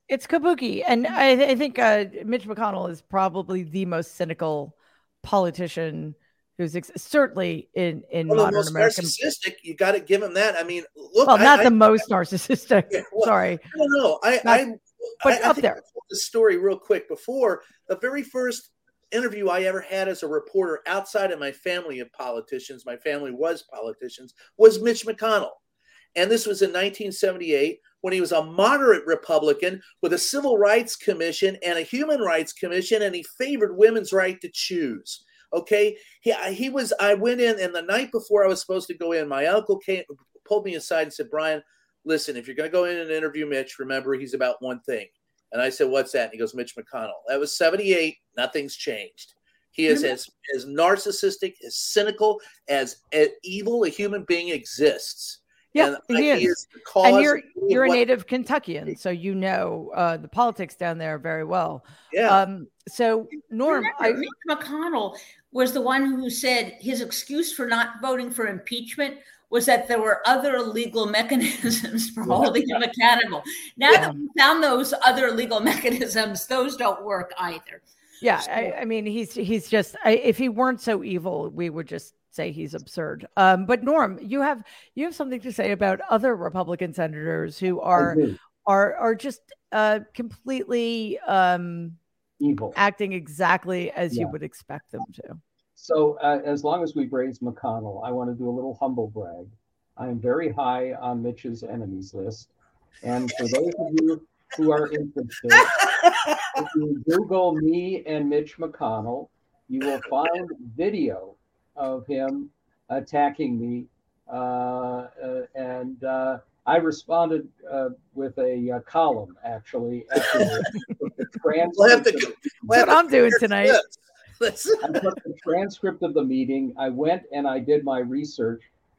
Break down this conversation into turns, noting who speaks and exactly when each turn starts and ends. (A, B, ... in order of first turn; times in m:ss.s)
0:00.1-0:09.2 A
0:08.3-0:11.7 B
0:11.3-0:13.7 A
0:12.9-0:25.6 B
0:15.2-0:15.8 A
0:26.2-0:58.0 B
0:55.7-1:04.3 A
1:02.1-1:02.4 B
1:03.7-1:17.8 C
1:18.2-1:32.0 A
1:28.0-1:28.4 D
1:32.4-1:32.8 D
1:32.8-1:35.4 A
1:35.8-1:42.5 D
1:43.0-1:45.8 D
1:46.5-2:02.6 D
2:01.8-2:05.1 B
2:02.7-2:03.8 A
2:04.8-2:08.7 D